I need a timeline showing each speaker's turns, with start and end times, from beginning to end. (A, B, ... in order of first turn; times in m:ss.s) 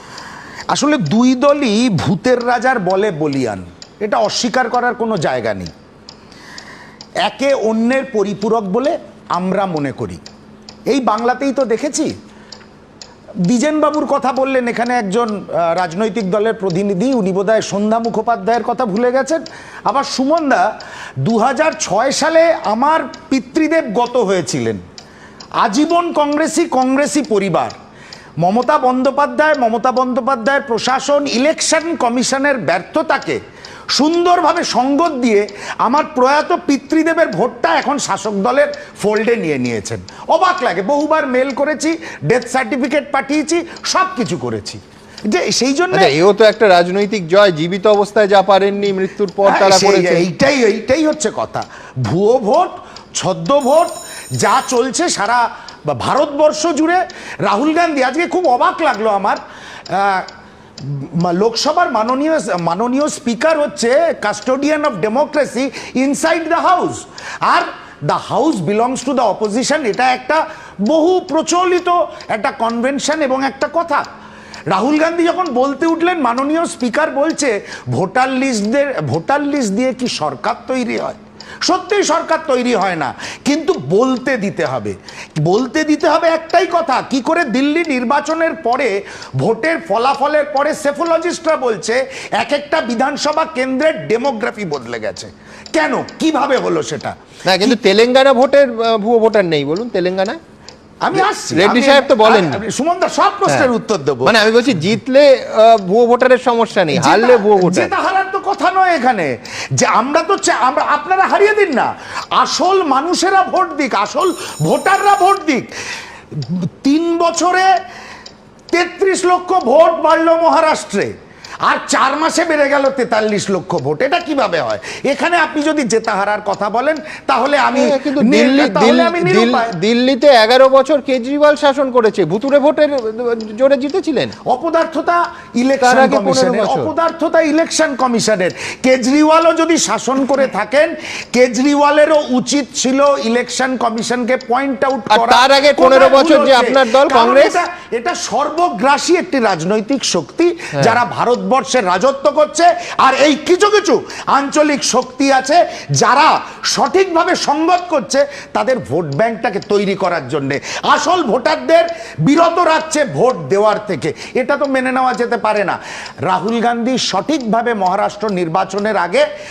0:00.7-0:05.7 A
0:07.2-0:10.2 A
0:10.9-0:12.1 A
0:13.5-0:20.7 A
0:21.2-0:24.8 A
0:25.6-0:27.8 A
0:28.4-0:33.4 A
0:34.0-0:46.1 A
0:45.9-0:50.3 B
0:49.4-0:59.4 A
0:59.9-1:00.3 A
1:00.8-1:14.0 A
1:14.7-1:37.8 A
1:37.4-1:40.4 B
1:41.0-1:44.3 A
1:41.2-1:42.6 B
1:44.2-1:47.9 B
1:46.9-1:55.7 A
1:56.3-1:57.7 A
1:58.7-2:01.1 A
2:01.7-2:09.7 A
2:07.7-2:14.3 B
2:14.5-2:49.2 A
2:15.8-2:16.9 B
2:25.1-2:27.6 B
2:30.8-2:31.0 B